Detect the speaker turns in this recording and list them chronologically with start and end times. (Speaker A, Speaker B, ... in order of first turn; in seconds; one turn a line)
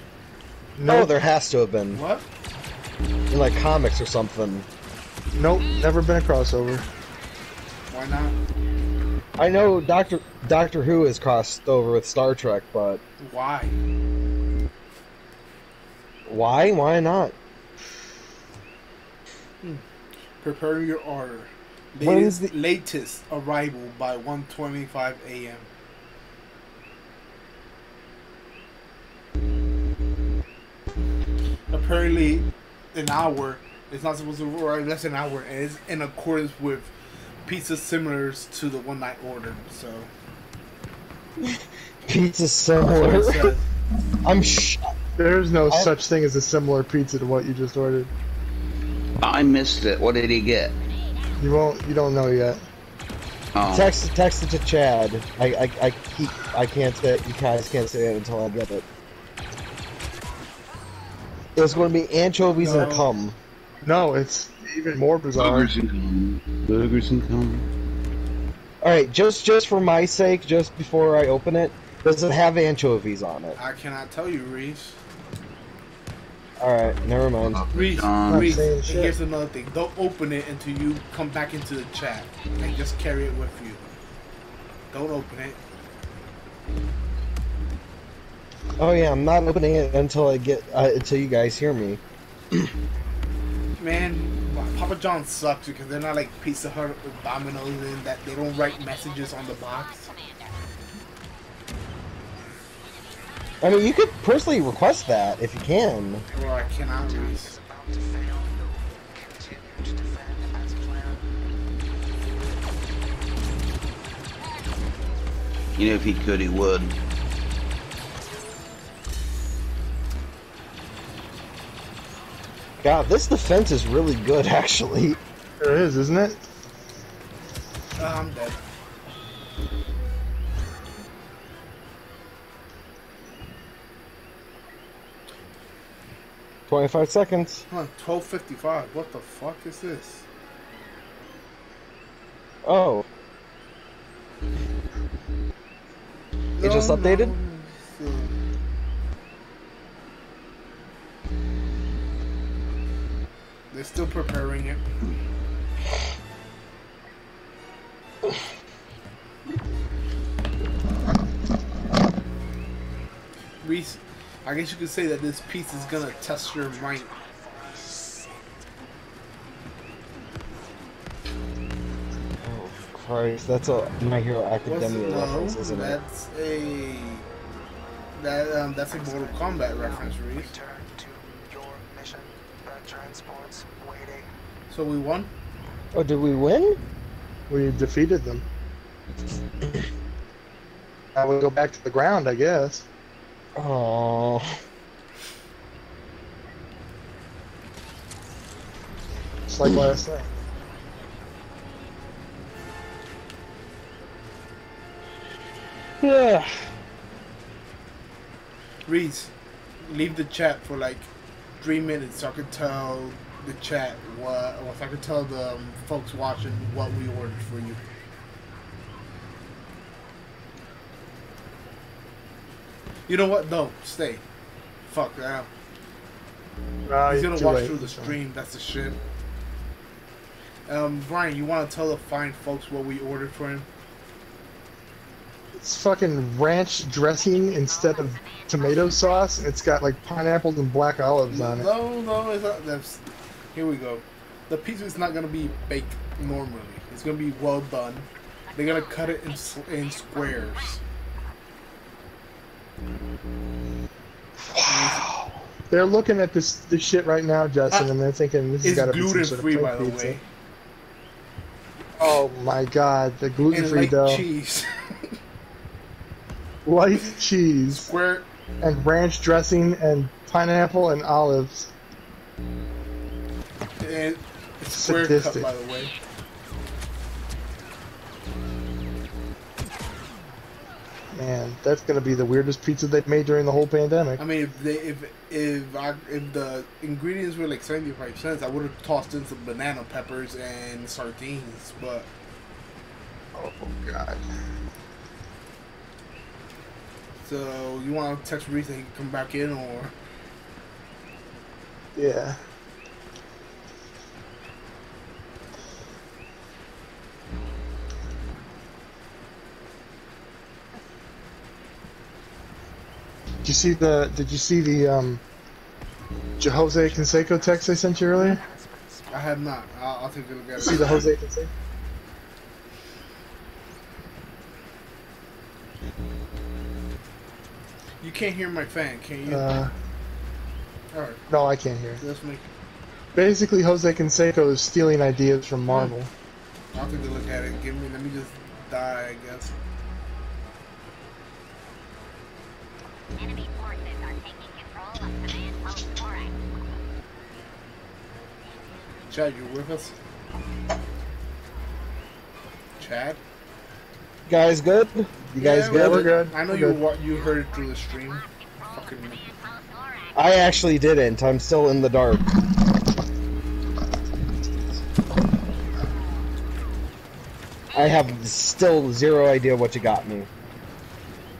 Speaker A: 0.8-1.1
Speaker B: 0.8-2.0
Speaker C: 1.9-2.2
Speaker B: 3.3-4.7
Speaker A: 5.3-6.8
Speaker C: 7.9-8.4
Speaker B: 9.4-13.0
Speaker C: 13.2-13.8
Speaker B: 16.2-17.4
Speaker C: 20.4-25.7
Speaker B: 22.0-22.5
Speaker C: 31.7-36.9
Speaker C: 37.5-40.1
Speaker B: 42.0-43.5
Speaker C: 42.8-43.6
Speaker B: 44.2-44.9
Speaker A: 45.2-48.1
Speaker D: 49.2-50.7
Speaker E: 50.9-51.4
Speaker A: 51.4-52.6
Speaker D: 53.5-54.0
Speaker B: 53.7-58.8
Speaker B: 61.5-63.4
Speaker C: 62.6-63.1
Speaker A: 63.8-65.7
Speaker D: 65.4-67.7
Speaker B: 68.8-73.6
Speaker C: 73.6-75.0
Speaker B: 76.6-77.6
Speaker D: 77.4-78.7
Speaker C: 77.7-83.8
Speaker A: 78.3-79.2
Speaker C: 84.9-85.6
Speaker B: 88.8-92.0
Speaker C: 93.8-100.1
Speaker E: 98.5-100.7
Speaker B: 103.6-106.2
Speaker C: 106.3-107.5
Speaker F: 106.3-111.3
Speaker D: 115.8-117.0
Speaker B: 122.8-125.2
Speaker A: 125.6-126.4
Speaker C: 128.0-128.6
Speaker B: 136.7-137.6
Speaker C: 137.7-140.2
Speaker B: 142.6-143.0
Speaker C: 146.6-148.3
Speaker B: 146.6-147.3
Speaker C: 153.7-154.8
Speaker C: 163.6-167.1
Speaker F: 165.7-168.4
Speaker B: 172.4-176.0
Speaker C: 174.6-177.2
Speaker C: 178.2-180.5
Speaker F: 178.8-184.3
Speaker C: 184.7-185.3
Speaker B: 185.9-186.8
Speaker A: 187.5-188.4
Speaker A: 191.1-192.8
Speaker B: 193.6-194.5
Speaker A: 199.5-200.3
Speaker B: 206.0-206.5
Speaker C: 208.8-209.3
Speaker C: 209.8-211.1
Speaker C: 211.6-217.8
Speaker C: 223.1-224.2
Speaker C: 224.9-225.5
Speaker A: 226.8-228.1
Speaker C: 227.1-229.0
Speaker C: 230.7-233.7
Speaker A: 235.6-241.7
Speaker E: 237.4-239.2
Speaker C: 241.3-243.0
Speaker C: 243.5-250.8
Speaker E: 248.5-250.5
Speaker A: 254.5-255.1
Speaker C: 254.7-255.1
Speaker A: 255.7-260.2
Speaker C: 258.6-260.2
Speaker A: 262.0-264.2
Speaker C: 263.5-265.1
Speaker A: 266.6-267.9
Speaker C: 267.7-268.2
Speaker A: 268.6-271.7
Speaker C: 273.8-275.9
Speaker A: 274.8-275.5
Speaker A: 281.1-284.2
Speaker C: 284.2-292.1
Speaker A: 293.3-294.2
Speaker C: 297.2-299.9
Speaker A: 301.9-302.4
Speaker A: 313.4-315.2
Speaker A: 316.4-318.4
Speaker F: 316.4-319.3
Speaker C: 319.1-321.1
Speaker A: 320.6-321.5
Speaker C: 328.0-329.5
Speaker A: 329.3-329.7
Speaker C: 330.9-331.2
Speaker A: 331.3-332.0
Speaker C: 332.0-332.4
Speaker A: 333.1-336.1
Speaker C: 335.7-335.9
Speaker C: 336.7-339.5
Speaker E: 343.1-346.4
Speaker C: 349.1-349.9
Speaker C: 352.8-353.2
Speaker B: 354.3-356.1
Speaker C: 355.4-359.2
Speaker A: 355.4-356.8
Speaker E: 356.9-360.6
Speaker B: 360.1-362.3
Speaker E: 367.7-368.1
Speaker B: 367.7-370.3